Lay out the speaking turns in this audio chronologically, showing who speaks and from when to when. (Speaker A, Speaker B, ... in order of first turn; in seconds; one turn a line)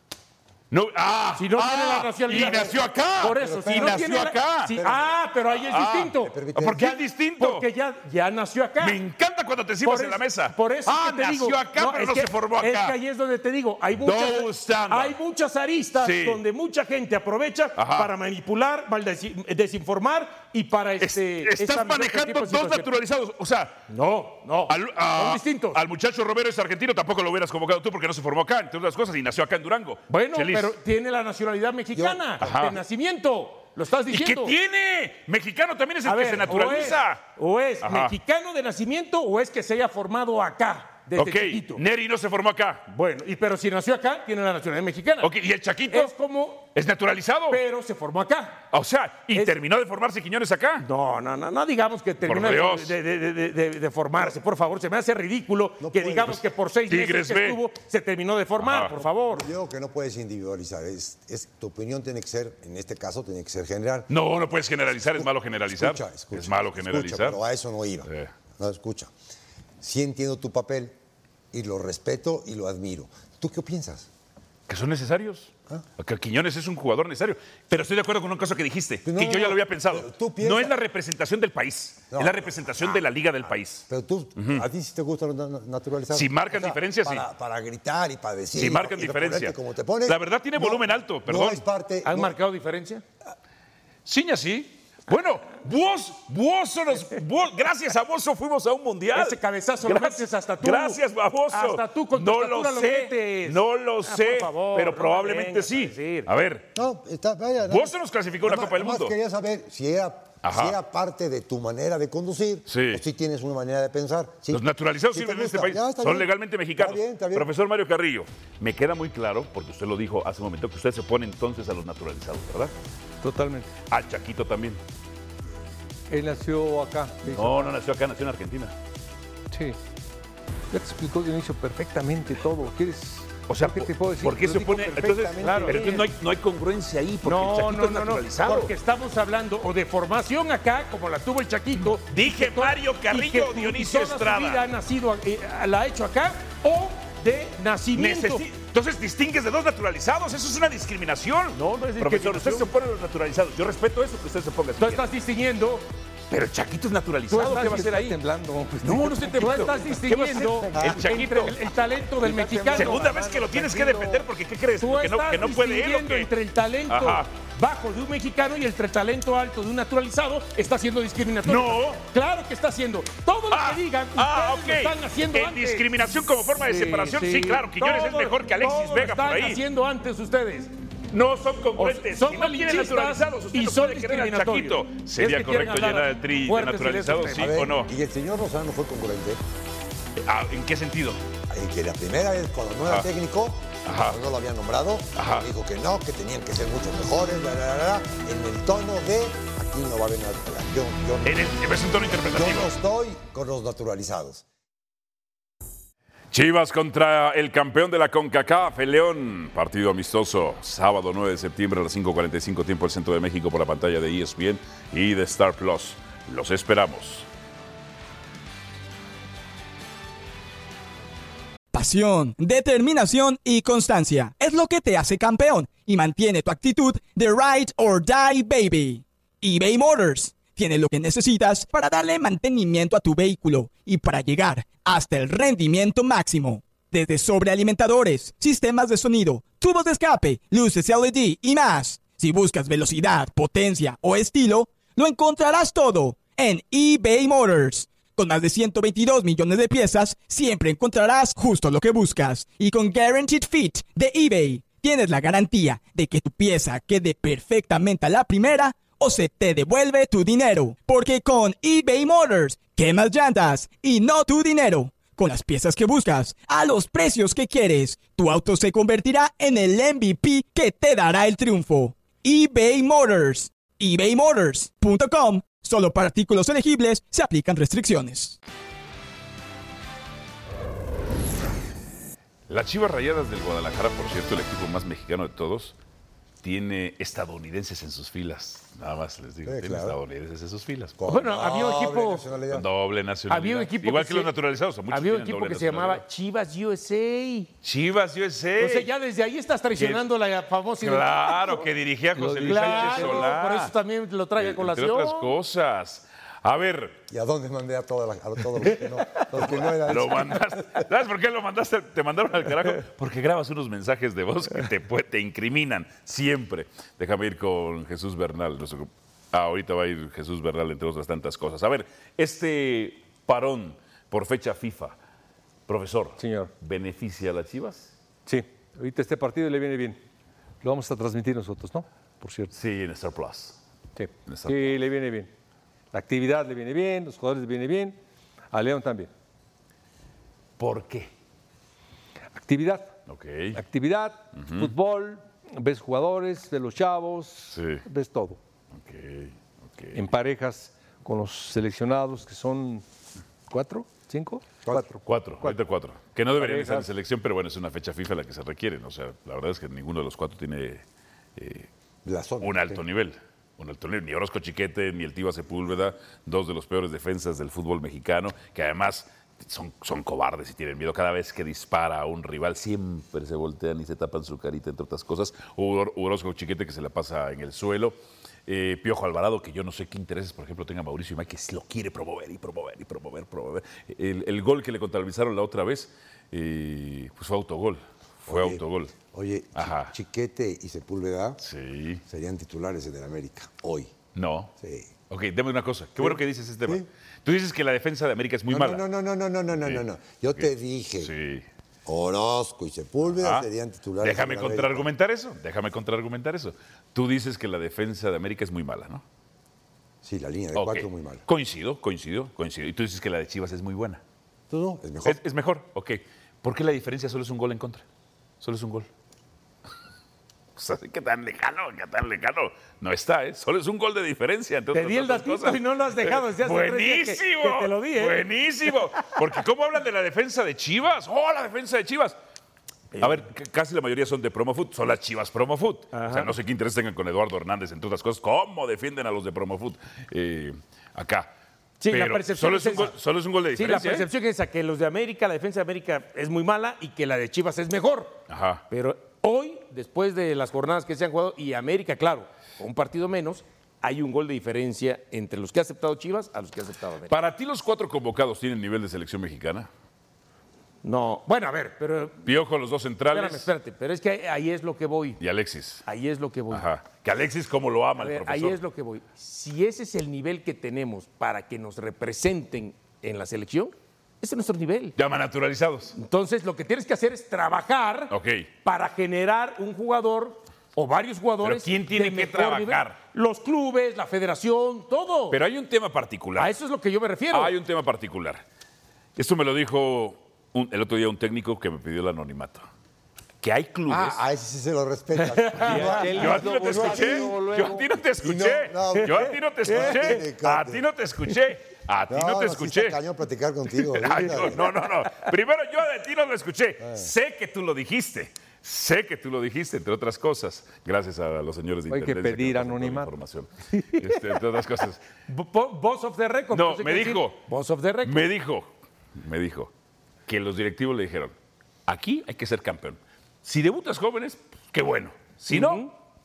Speaker A: 0.7-4.7
Speaker B: 1.3-9.0
Speaker C: 2.3-2.7
Speaker C: 3.3-4.1
Speaker C: 4.7-5.1
Speaker A: 5.7-7.7
Speaker C: 6.2-6.9
Speaker A: 8.8-12.9
Speaker B: 9.8-22.9
Speaker A: 14.0-15.2
Speaker A: 16.0-16.4
Speaker A: 17.8-18.1
Speaker A: 21.0-23.8
Speaker B: 23.9-25.8
Speaker A: 24.7-30.7
Speaker B: 30.1-34.5
Speaker A: 32.4-32.8
Speaker A: 34.1-37.2
Speaker B: 36.0-41.8
Speaker A: 37.8-38.1
Speaker A: 41.2-42.8
Speaker B: 42.9-45.3
Speaker A: 45.2-46.1
Speaker B: 45.9-46.7
Speaker A: 46.7-47.6
Speaker B: 47.5-48.6
Speaker A: 48.7-50.8
Speaker B: 50.8-59.5
Speaker A: 52.2-52.9
Speaker C: 55.8-56.4
Speaker A: 56.9-57.6
Speaker A: 58.6-58.9
Speaker C: 59.0-64.1
Speaker A: 64.1-67.4
Speaker C: 65.2-69.1
Speaker C: 69.8-71.0
Speaker C: 71.5-74.1
Speaker A: 74.7-83.8
Speaker C: 79.0-80.7
Speaker C: 82.1-83.0
Speaker C: 83.8-92.3
Speaker A: 84.3-84.6
Speaker A: 86.1-87.2
Speaker A: 88.5-91.6
Speaker B: 92.0-93.0
Speaker A: 94.0-106.7
Speaker B: 99.1-106.3
Speaker C: 106.7-117.5
Speaker A: 107.7-109.1
Speaker A: 110.4-110.8
Speaker A: 112.7-113.0
Speaker A: 114.5-122.7
Speaker D: 123.2-123.7
Speaker A: 123.9-124.8
Speaker D: 126.1-127.7
Speaker A: 127.3-128.7
Speaker D: 129.5-129.8
Speaker D: 130.7-136.0
Speaker A: 133.5-138.7
Speaker B: 135.4-136.1
Speaker B: 137.2-148.4
Speaker A: 141.8-144.6
Speaker A: 147.9-155.1
Speaker B: 151.5-152.7
Speaker B: 154.8-155.9
Speaker A: 156.3-158.2
Speaker B: 157.3-157.6
Speaker D: 157.3-160.8
Speaker A: 158.8-161.6
Speaker B: 159.4-163.1
Speaker D: 162.2-164.1
Speaker A: 162.7-166.3
Speaker B: 164.8-175.8
Speaker A: 166.9-167.3
Speaker A: 171.4-172.0
Speaker A: 173.5-179.6
Speaker B: 176.7-180.7
Speaker D: 176.9-177.3
Speaker A: 181.1-187.9
Speaker B: 181.8-187.4
Speaker C: 187.4-189.4
Speaker A: 190.2-191.2
Speaker C: 191.5-201.6
Speaker A: 193.8-194.2
Speaker A: 195.2-195.5
Speaker A: 201.2-202.7
Speaker C: 202.1-204.4
Speaker A: 206.3-217.2
Speaker E: 221.7-278.4
Speaker A: 282.5-285.8
Speaker A: 286.4-291.0
Speaker C: 289.4-290.0
Speaker C: 291.0-292.7
Speaker B: 291.1-292.2
Speaker A: 292.5-296.0
Speaker B: 293.3-294.3
Speaker B: 294.9-297.5
Speaker A: 297.6-298.9
Speaker B: 298.6-301.6
Speaker A: 299.8-300.0
Speaker A: 300.8-303.7
Speaker D: 302.1-303.3
Speaker B: 302.4-305.3
Speaker A: 304.4-307.0
Speaker C: 307.1-310.8
Speaker A: 309.3-324.9
Speaker A: 325.7-327.9
Speaker D: 326.2-326.5
Speaker D: 328.2-330.0
Speaker D: 330.6-332.5
Speaker A: 332.5-333.6
Speaker D: 333.9-335.3
Speaker A: 334.2-334.8
Speaker D: 335.9-338.0
Speaker D: 338.5-339.1
Speaker A: 340.6-341.1
Speaker D: 342.3-342.9
Speaker A: 343.1-343.6
Speaker D: 343.5-348.4
Speaker A: 344.4-344.7
Speaker A: 347.5-347.8
Speaker A: 348.7-350.0
Speaker D: 349.9-352.8
Speaker D: 353.5-355.6
Speaker A: 355.1-360.8
Speaker D: 356.3-356.9
Speaker A: 361.4-361.7
Speaker C: 362.0-362.8
Speaker A: 362.4-377.9
Speaker A: 378.5-388.9
Speaker C: 388.3-391.4
Speaker A: 389.5-389.9
Speaker A: 391.4-392.0
Speaker C: 392.1-393.9
Speaker A: 394.1-394.5
Speaker C: 394.6-394.9
Speaker A: 395.1-398.8
Speaker C: 396.0-396.9
Speaker C: 398.5-401.1
Speaker A: 401.0-401.4
Speaker C: 401.9-404.9
Speaker A: 403.1-403.4
Speaker A: 404.0-409.0
Speaker C: 410.0-411.2
Speaker A: 410.5-414.0
Speaker C: 414.5-415.2
Speaker A: 415.0-417.8
Speaker A: 418.4-418.9
Speaker A: 420.6-432.2
Speaker B: 424.7-428.2
Speaker B: 432.9-433.2
Speaker A: 433.0-441.3
Speaker B: 435.9-436.3
Speaker B: 441.8-442.9
Speaker A: 441.9-444.1
Speaker B: 443.5-457.1
Speaker A: 448.3-448.6
Speaker A: 457.1-459.7
Speaker B: 460.8-462.2
Speaker A: 462.2-463.5
Speaker B: 463.1-465.2
Speaker A: 465.2-465.8
Speaker B: 465.9-466.6
Speaker A: 466.5-468.6
Speaker B: 468.0-474.9
Speaker A: 475.0-475.9
Speaker B: 475.9-485.4
Speaker A: 478.1-478.5
Speaker A: 481.4-483.0
Speaker A: 485.3-486.5
Speaker B: 486.4-487.5
Speaker A: 487.3-488.4
Speaker A: 489.1-492.6
Speaker A: 493.4-494.2
Speaker C: 493.9-497.3
Speaker B: 495.4-496.4
Speaker D: 495.6-497.9
Speaker A: 495.6-503.0
Speaker C: 498.2-500.8
Speaker B: 498.9-500.2
Speaker C: 502.1-504.6
Speaker A: 503.9-515.0
Speaker C: 506.8-507.1
Speaker D: 511.9-513.1
Speaker B: 515.3-518.3
Speaker A: 516.5-517.4
Speaker A: 518.0-519.7
Speaker A: 520.3-521.3
Speaker A: 521.9-525.9
Speaker B: 525.5-525.9